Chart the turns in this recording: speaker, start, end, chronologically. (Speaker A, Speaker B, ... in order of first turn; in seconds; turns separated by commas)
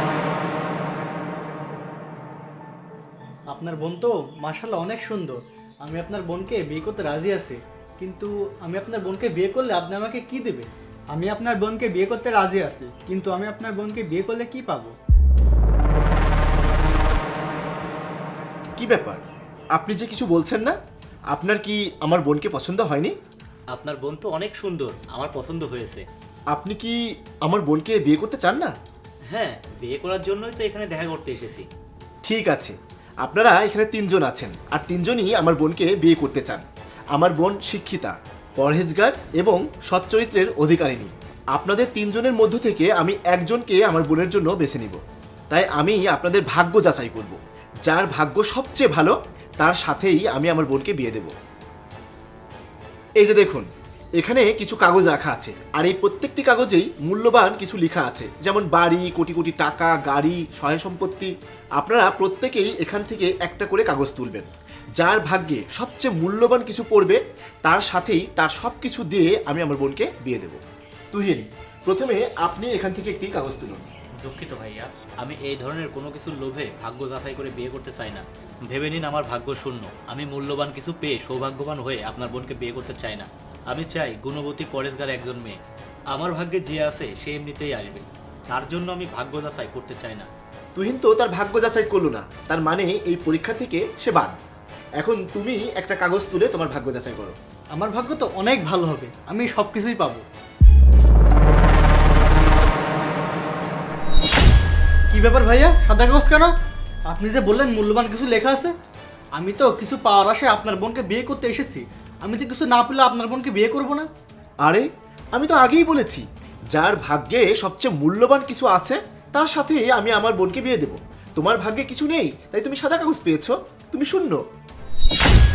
Speaker A: 3.5-14.9, Speaker B: 18.8-19.2, Speaker B: 19.8-20.8, Speaker B: 21.3-23.1, Speaker C: 23.7-26.1, Speaker B: 26.5-28.7, Speaker C: 29.3-31.7, Speaker B: 32.2-36.6, Speaker B: 37.2-45.0, Speaker B: 45.5-51.3, Speaker B: 53.2-53.7, Speaker B: 54.2-70.6, Speaker B: 71.1-73.9, Speaker C: 74.2-85.6, Speaker C: 86.1-90.3, Speaker B: 90.8-94.4, Speaker B: 95.0-97.3, Speaker A: 97.7-100.2, Speaker A: 105.1-106.5, Speaker A: 107.1-108.7, Speaker A: 109.3-114.1, Speaker B: 114.6-124.4